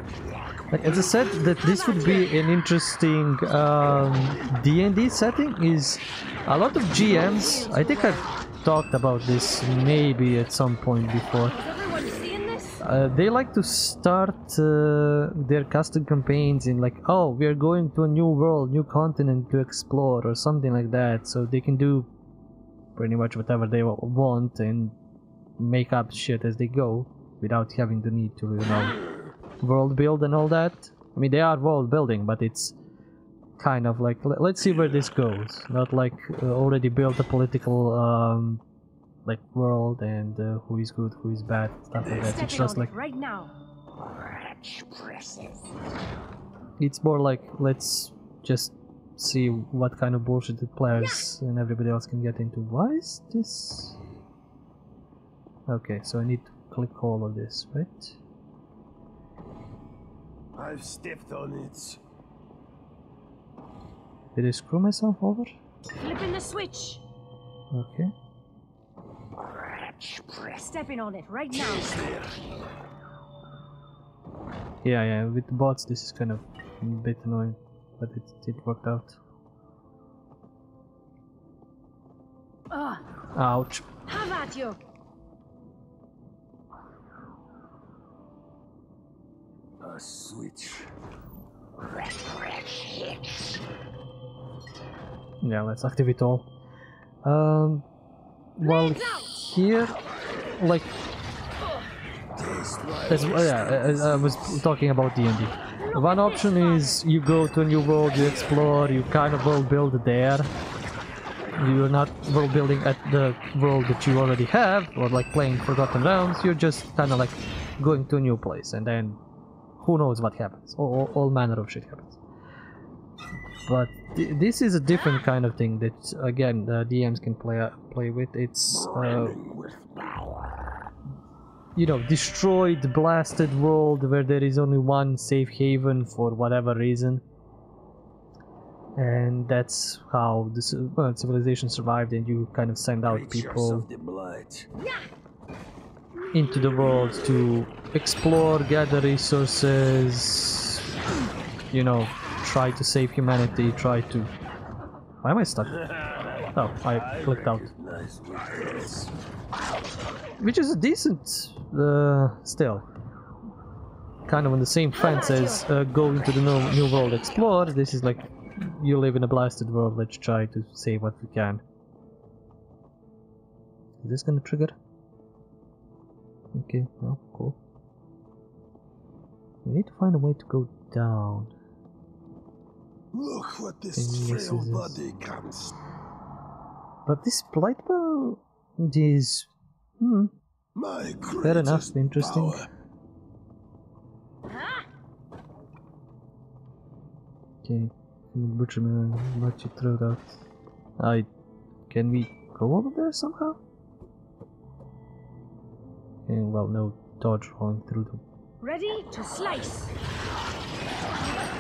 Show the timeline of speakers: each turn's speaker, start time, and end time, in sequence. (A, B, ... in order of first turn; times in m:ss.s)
0:00.7-0:11.6 A
0:01.6-0:02.4 B
0:06.9-0:08.3 B
0:11.5-0:12.8 B
0:12.8-0:22.1 A
0:23.0-0:24.9 A
0:25.6-0:29.0 A
0:29.6-0:32.8 A
0:33.6-0:38.6 A
0:39.2-0:42.9 A
0:42.1-0:43.5 B
0:44.5-0:45.6 C
0:46.8-0:54.0 A
0:55.7-0:58.2 A
1:00.5-1:02.0 C
1:04.3-1:05.5 A
1:06.0-1:07.0 B
1:07.7-1:08.1 A
1:10.6-1:12.0 B
1:11.6-1:12.3 C
1:14.8-1:19.2 A
1:22.7-1:23.0 B
1:23.3-1:23.8 A
1:24.0-1:24.8 B
1:29.8-1:30.9 C
1:35.4-1:36.5 A
1:37.2-1:37.8 A
1:38.6-1:40.0 A
1:38.6-1:39.3 B
1:40.5-1:41.0 A
1:42.3-1:44.6 C
1:43.1-1:50.5 A
1:45.8-1:47.0 B
1:51.6-1:59.2 A
1:59.8-2:02.2 A
2:03.6-2:09.4 A
2:08.7-2:10.4 C
2:11.7-2:17.2 A
2:19.0-2:23.9 A
2:23.0-2:24.7 C
2:24.8-2:25.0 B
2:26.3-2:30.8 A
2:31.7-2:34.3 A
2:35.2-2:35.8 A
2:35.6-2:39.1 C
2:36.5-2:37.7 A
2:40.4-2:42.8 A
2:44.2-2:51.6 A
2:45.0-2:45.6 B
2:54.0-2:54.8 A
2:56.5-2:57.6 A
2:59.6-3:01.5 A
3:03.1-3:05.8 C
3:03.9-3:05.0 A
3:07.0-3:10.3 A
3:10.7-3:12.7 C
3:11.4-3:12.6 A
3:14.5-3:14.8 B
3:17.6-3:20.4 A
3:21.0-3:21.3 A
3:21.9-3:23.6 A
3:26.3-3:28.2 A
3:28.6-3:29.9 B